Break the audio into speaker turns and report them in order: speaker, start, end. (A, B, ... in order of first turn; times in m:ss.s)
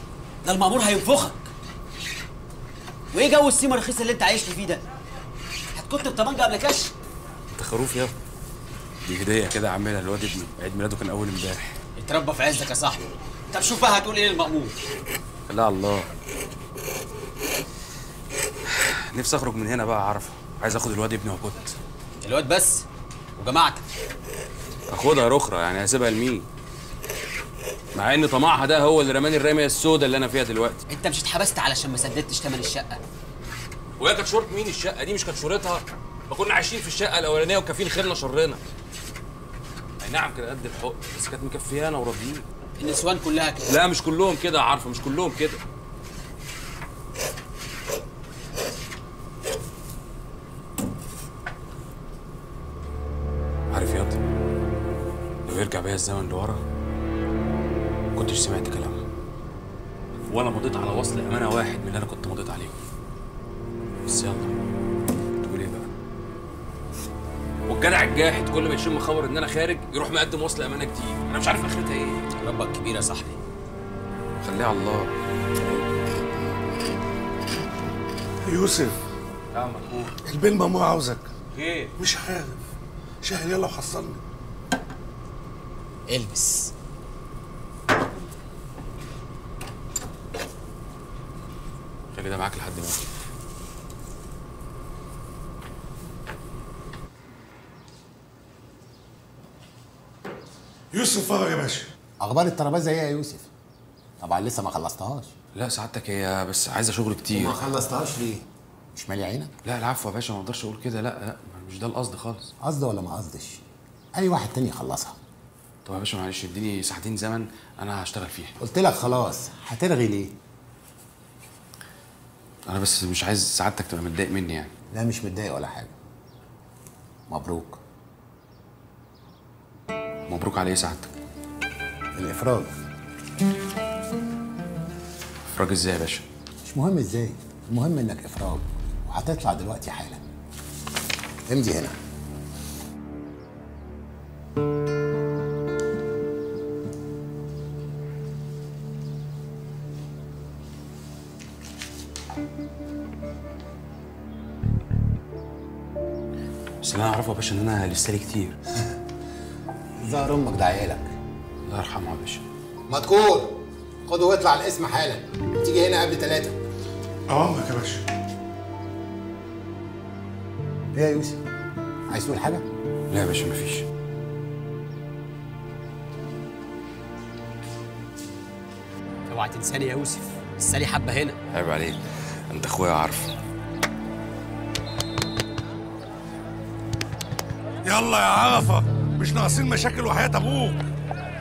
0:00.4-0:01.5 A
0:03.1-0:04.8 A
0:05.7-0:06.9 A
0:07.5-0:08.1 B
0:09.0-0:11.8 B
0:12.0-0:14.8 A
0:15.5-0:16.1 B
0:18.7-0:21.8 B
0:22.2-0:22.9 A
0:23.4-0:23.8 A
0:24.9-0:26.5 B
0:27.9-0:30.8 B
0:30.9-0:33.0 A
0:34.0-0:38.6 B
0:40.0-0:42.5 B
0:42.8-0:43.8 A
0:43.7-0:45.6 B
0:53.7-0:54.2 B
0:55.5-0:56.6 B
0:58.2-0:59.0 B
1:00.3-1:02.8 B
1:04.1-1:04.5 B
1:05.4-1:05.9 B
1:07.7-1:12.2 B
1:12.4-1:13.4 A
1:14.4-1:15.8 B
1:18.4-1:19.0 C
1:19.5-1:20.2 B
1:20.2-1:21.3 C
1:21.5-1:21.9 B
1:22.0-1:22.6 C
1:23.2-1:24.2 C
1:26.1-1:26.7 A
1:32.1-1:33.0 B
1:40.9-1:41.9 C
1:42.2-1:43.5 D
1:44.2-1:45.3 D
1:45.6-1:47.6 B
1:47.3-1:49.5 D
1:49.6-1:52.5 B
1:52.6-1:53.6 D
1:54.2-1:55.2 D
1:55.8-1:58.6 B
1:58.6-2:00.3 D
2:02.7-2:04.7 B
2:04.9-2:05.9 D
2:07.3-2:07.8 D
2:10.3-2:11.1 B
2:12.2-2:12.7 D
2:15.5-2:16.3 B
2:16.6-2:20.2 D
2:21.5-2:22.0 D
2:36.8-2:38.6 B
2:40.0-2:41.1 D
2:41.7-2:42.4 B
2:42.9-2:46.6 D
2:47.3-2:48.0 C
2:50.9-2:51.4 D
2:52.1-2:52.6 D
2:53.1-2:53.9 B
2:59.3-3:01.4 A
3:01.5-3:03.3 B
3:07.8-3:10.8 C